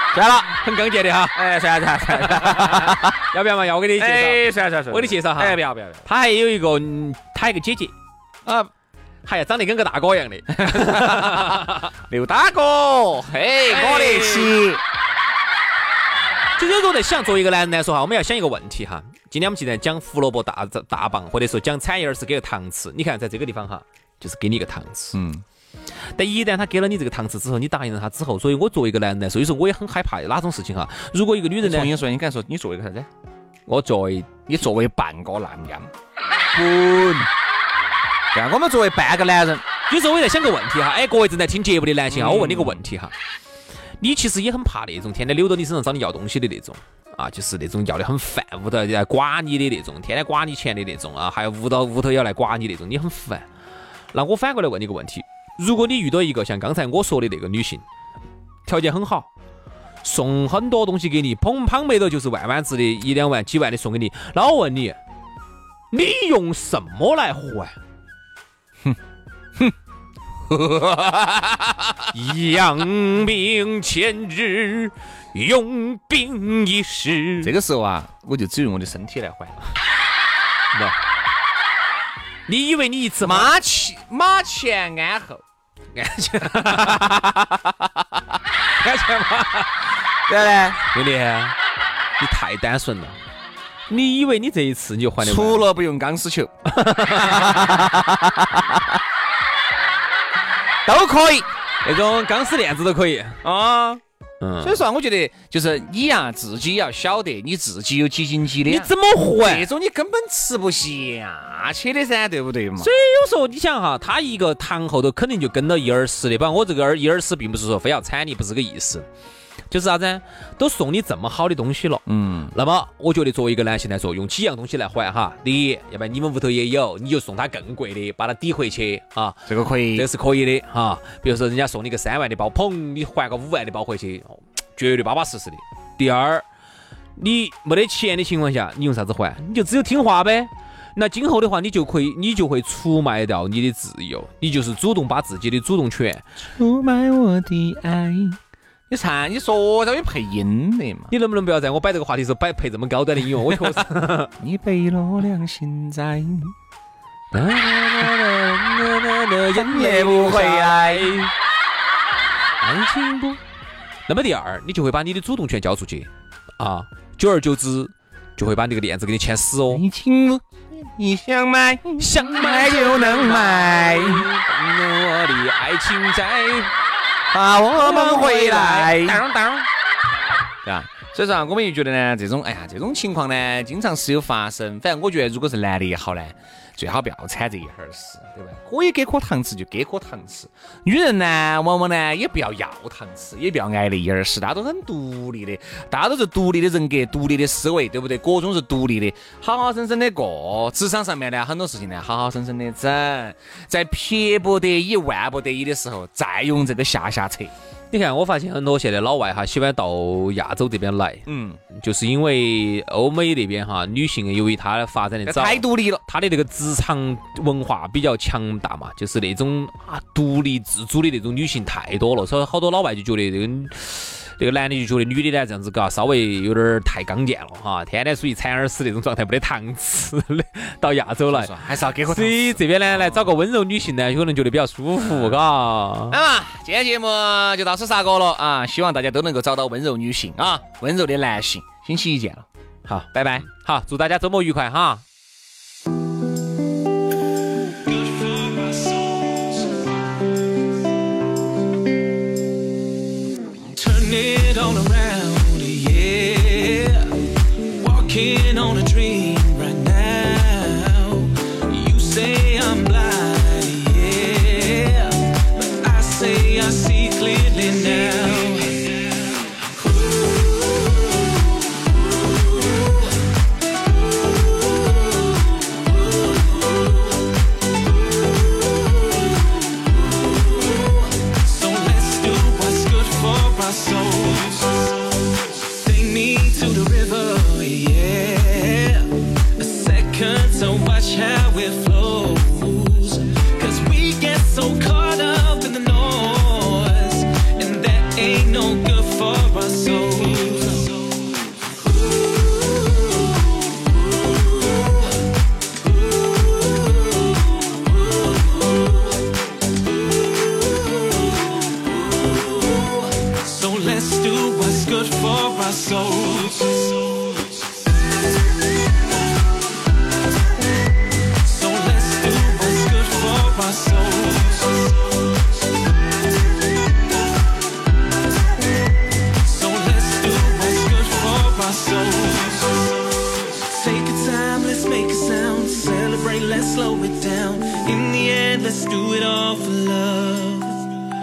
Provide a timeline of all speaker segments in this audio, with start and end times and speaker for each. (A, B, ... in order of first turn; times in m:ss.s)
0:00.1-0:00.5 A
0:00.5-0:01.4 B
0:01.3-0:03.1 A
0:02.1-0:07.9 B
0:04.0-0:06.0 A
0:08.4-0:08.7 A
0:09.2-0:11.9 B
0:10.5-0:14.8 A
0:13.7-0:14.5 B
0:16.6-0:25.2 B
0:25.1-0:25.4 A
0:26.1-0:31.9 B
0:31.6-0:33.1 A
0:33.7-0:34.3 B
0:34.4-0:35.9 A
0:36.5-0:37.3 A
0:38.3-0:39.6 A
0:39.9-0:43.1 B
0:42.1-0:42.8 A
0:44.0-0:53.4 B
0:54.1-0:57.8 B
0:58.6-0:59.3 B
1:00.0-1:05.0 B
1:05.9-1:07.7 B
1:10.5-1:12.1 A
1:12.1-1:17.5 B
1:17.4-1:19.6 A
1:22.5-1:23.5 B
1:23.2-1:25.4 A
1:25.9-1:27.6 B
1:28.8-1:29.7 B
1:30.3-1:30.8 A
1:30.9-1:31.6 B
1:32.2-1:33.2 B
1:33.9-1:35.7 B
1:35.2-1:36.5 A
1:36.7-1:38.1 B
1:37.1-1:37.9 A
1:40.8-1:41.5 A
1:41.8-1:43.4 B
1:43.4-1:44.0 A
1:44.4-1:44.8 B
1:44.6-1:52.9 A
1:48.6-1:49.7 B
1:52.8-1:59.0 B
1:59.7-2:16.4 B
2:02.1-2:02.5 A
2:09.5-2:10.1 A
2:17.2-2:26.3 B
2:26.4-2:28.4 A
2:28.9-2:31.1 A
2:31.1-2:34.3 B
2:34.4-2:36.5 A
2:37.3-2:41.3 B
2:39.5-2:41.2 A
2:42.6-2:43.4 B
2:44.1-2:49.8 B
2:49.7-2:54.3 A
2:52.0-2:56.7 B
2:57.3-2:59.2 A
2:57.8-2:59.7 B
3:00.6-3:27.5 A
3:27.9-3:51.5 B
3:31.2-3:31.6 A
3:35.2-3:36.0 A
3:51.3-3:53.3 A
3:52.0-3:56.2 B
3:55.0-3:55.4 A
3:56.1-4:02.5 A
4:02.8-4:05.0 B
4:03.1-4:03.5 A
4:07.8-4:09.7 C
4:13.7-4:30.3 C
4:32.5-4:33.0 C
4:36.2-4:36.8 C
4:39.2-5:01.3 C
5:02.4-5:03.3 C
5:04.4-5:04.9 C
5:12.2-5:17.4 C
5:21.4-5:24.8 C
5:29.4-5:32.9 C
5:33.4-5:40.9 C